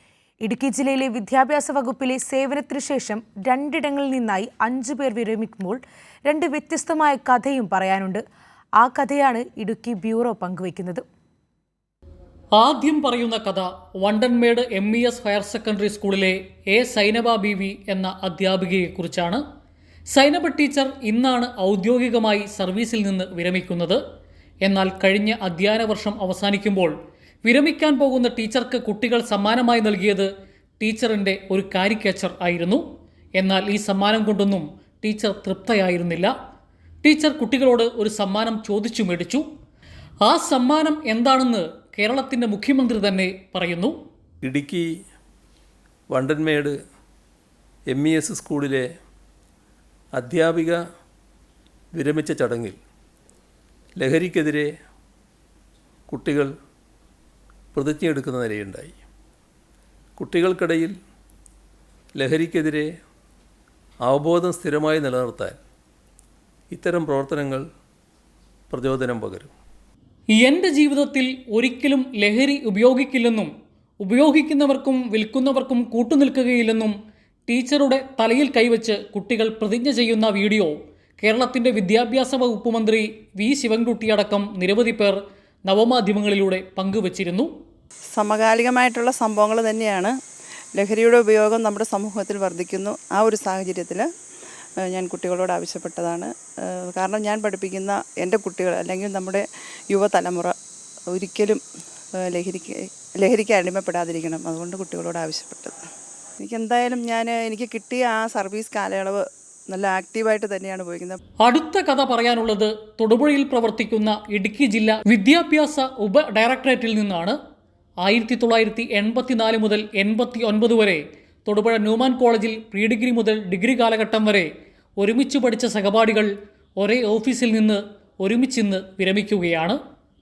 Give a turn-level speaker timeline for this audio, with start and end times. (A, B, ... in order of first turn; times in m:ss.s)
0:00.4-0:08.2 A
0:08.8-0:11.0 A
0:12.5-0:19.4 B
0:20.1-0:24.0 B
0:24.6-0:26.9 B
0:27.4-0:30.3 B
0:30.8-0:32.8 B
0:33.4-0:36.3 B
0:37.0-0:39.4 B
0:40.2-0:43.9 B
0:44.4-0:44.8 C
0:46.1-0:46.7 C
0:47.9-0:48.8 C
0:50.1-0:50.8 C
0:51.9-0:52.8 C
0:54.0-0:54.7 C
0:56.1-0:56.5 C
0:57.7-0:59.0 C
1:00.2-1:00.9 C
1:02.1-1:02.9 C
1:04.0-1:05.6 C
1:06.7-1:07.6 C
1:08.7-1:09.5 C
1:10.4-1:16.9 B
1:17.5-1:27.5 B
1:28.2-1:30.1 D
1:30.8-1:34.0 D
1:34.9-1:40.5 D
1:41.1-1:41.6 D
1:42.3-1:45.8 D
1:46.4-1:49.2 D
1:49.7-1:51.2 D
1:51.4-1:57.4 B
1:58.0-2:04.5 B
2:05.0-2:09.8 B